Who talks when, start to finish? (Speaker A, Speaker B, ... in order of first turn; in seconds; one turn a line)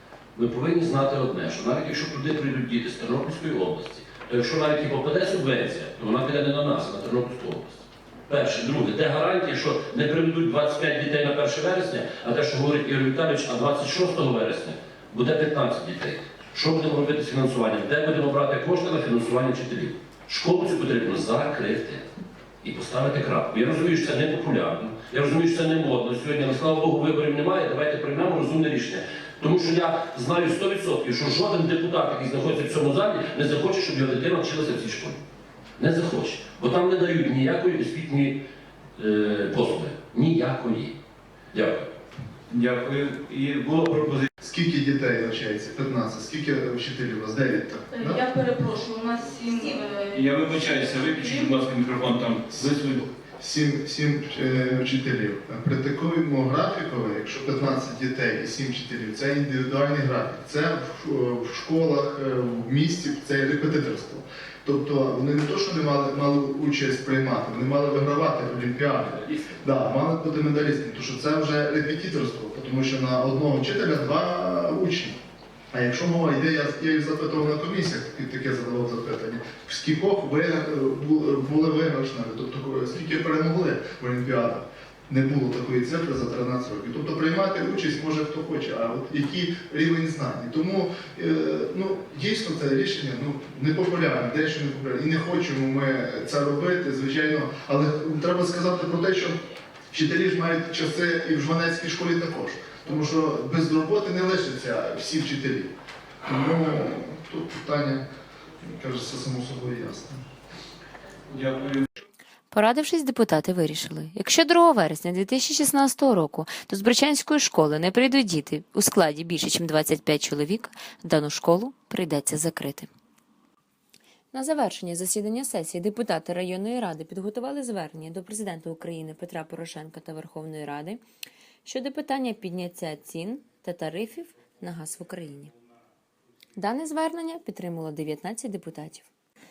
Speaker A: 0.3-22.1
Speaker A: 22.6-35.2
Speaker A: 35.8-38.4
Speaker A: 39.0-41.0
Speaker A: 41.5-41.9
Speaker B: 42.5-44.3
Speaker C: 44.4-48.2
Speaker D: 47.9-51.5
Speaker B: 50.1-53.1
Speaker C: 53.4-75.2
Speaker C: 75.7-99.4
Speaker C: 99.9-105.7
Speaker C: 106.2-108.0
Speaker C: 108.6-110.2
Speaker B: 111.3-111.9
Speaker E: 112.5-122.9
Speaker E: 124.3-131.0
Speaker E: 131.7-135.5
Speaker E: 136.6-139.1